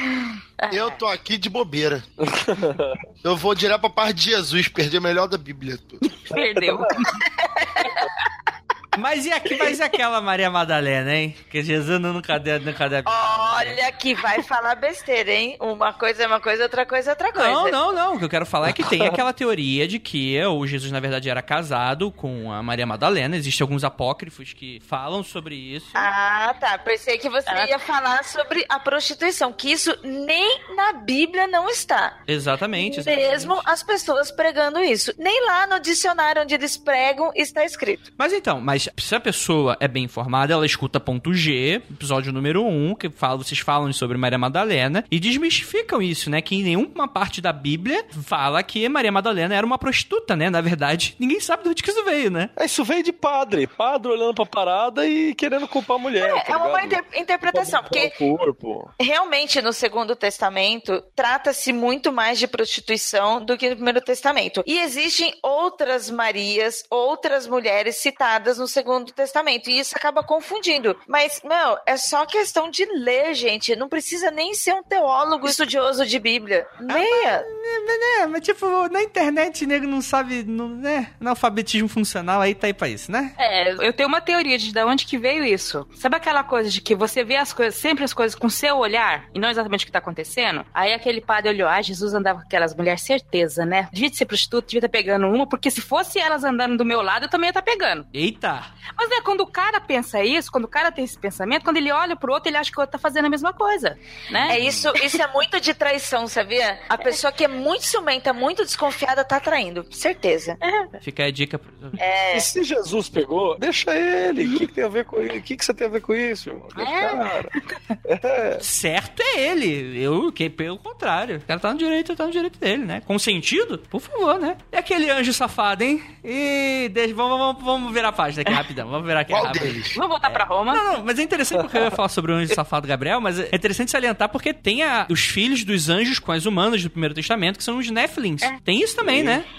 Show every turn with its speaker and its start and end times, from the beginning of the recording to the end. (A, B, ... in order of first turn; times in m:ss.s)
0:00.6-0:01.0 A
0:00.7-0:02.0 B
0:02.2-0:03.0 C
0:03.2-0:06.0 B
0:06.0-0:07.2 A
0:06.3-0:07.0 C
0:07.6-0:08.0 D
0:09.0-0:13.8 E
0:13.0-0:17.8 D
0:17.3-0:26.1 E
0:18.6-0:19.2 C
0:25.9-0:32.2 D
0:27.5-0:27.8 A
0:32.3-0:33.6 E
0:32.7-0:38.0 D
0:38.2-0:52.5 E
0:52.6-0:58.9 C
0:56.2-0:58.1 D
0:59.0-1:17.5 D
1:16.9-1:23.3 E
1:23.4-1:38.1 A
1:38.1-1:38.7 E
1:38.9-1:45.1 A
1:44.5-1:50.6 D
1:50.6-1:50.9 A
1:51.0-1:52.0 E
1:52.0-1:52.5 D
1:52.3-1:58.6 C
1:56.8-1:57.9 A
1:58.6-2:19.5 E
2:09.3-2:10.0 B
2:09.9-2:10.8 A
2:19.0-2:19.4 C